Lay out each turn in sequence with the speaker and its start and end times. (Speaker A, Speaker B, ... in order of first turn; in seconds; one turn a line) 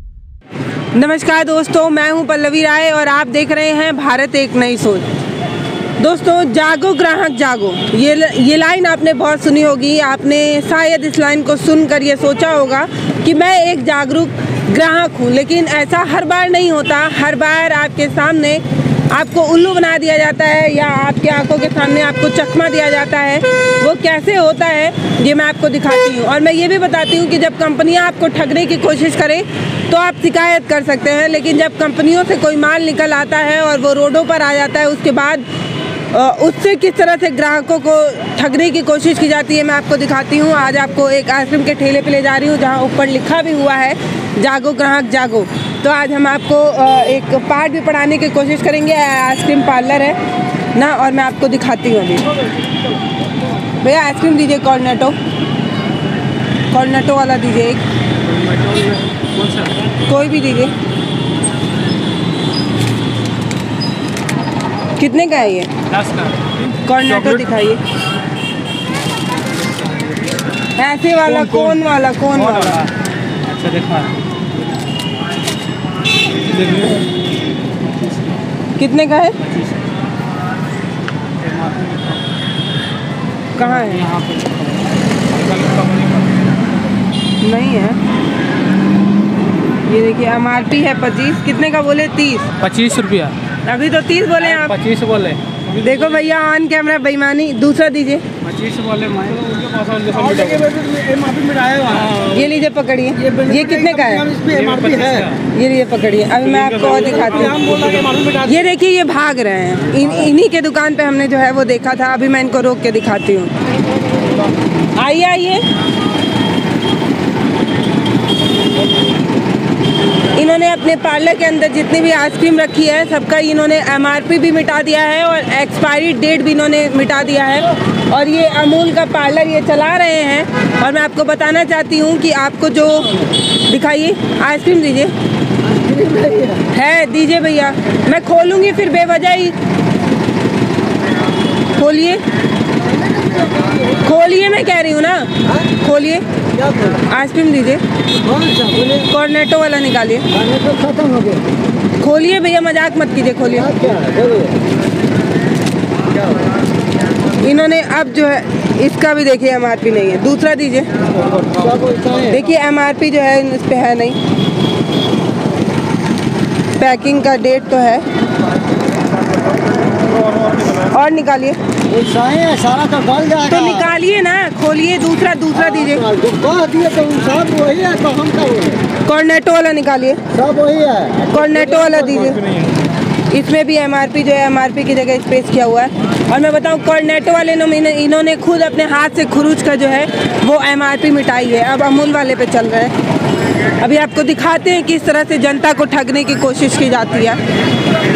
Speaker A: 0.9-5.1
Speaker A: 6.0-35.4
Speaker A: 36.1-50.2
Speaker A: 50.7-52.3
Speaker A: 53.8-55.2
Speaker A: 56.7-57.8
Speaker B: 58.5-59.7
Speaker A: 60.1-60.7
Speaker A: 65.0-65.7
Speaker B: 65.9-66.7
Speaker A: 66.7-67.8
Speaker B: 69.6-70.4
Speaker A: 70.8-72.8
Speaker B: 71.3-71.8
Speaker B: 72.4-72.9
Speaker B: 73.5-74.1
Speaker B: 76.5-77.1
Speaker B: 77.9-78.3
Speaker A: 78.8-79.4
Speaker B: 79.5-79.7
Speaker B: 81.4-82.2
Speaker A: 83.6-84.0
Speaker B: 83.6-86.3
Speaker A: 87.4-88.0
Speaker A: 89.8-92.5
Speaker B: 92.6-93.4
Speaker A: 93.6-94.8
Speaker B: 94.5-95.6
Speaker A: 95.7-98.2
Speaker B: 98.4-100.6
Speaker C: 100.2-102.1
Speaker B: 102.0-102.2
Speaker A: 102.2-104.3
Speaker C: 103.2-105.3
Speaker B: 104.5-105.3
Speaker A: 105.5-107.7
Speaker B: 106.6-108.0
Speaker C: 107.1-108.5
Speaker A: 108.4-113.5
Speaker A: 114.9-115.7
Speaker A: 120.3-135.1
Speaker C: 135.7-136.6
Speaker A: 136.7-139.6
Speaker A: 141.7-142.2
Speaker C: 143.2-143.8
Speaker A: 143.9-146.2
Speaker C: 146.6-147.0
Speaker A: 147.1-147.8
Speaker C: 148.2-149.1
Speaker A: 149.0-150.2
Speaker C: 150.3-151.5
Speaker A: 152.0-153.7
Speaker C: 153.6-154.6
Speaker A: 157.4-160.9
Speaker C: 161.2-162.4
Speaker A: 162.3-164.2
Speaker A: 166.8-168.1
Speaker A: 170.7-171.6
Speaker C: 171.9-173.9
Speaker A: 173.5-176.1
Speaker C: 175.7-178.8
Speaker A: 179.1-180.2
Speaker C: 180.3-182.3
Speaker A: 181.3-182.4
Speaker A: 183.3-192.9
Speaker A: 193.8-197.4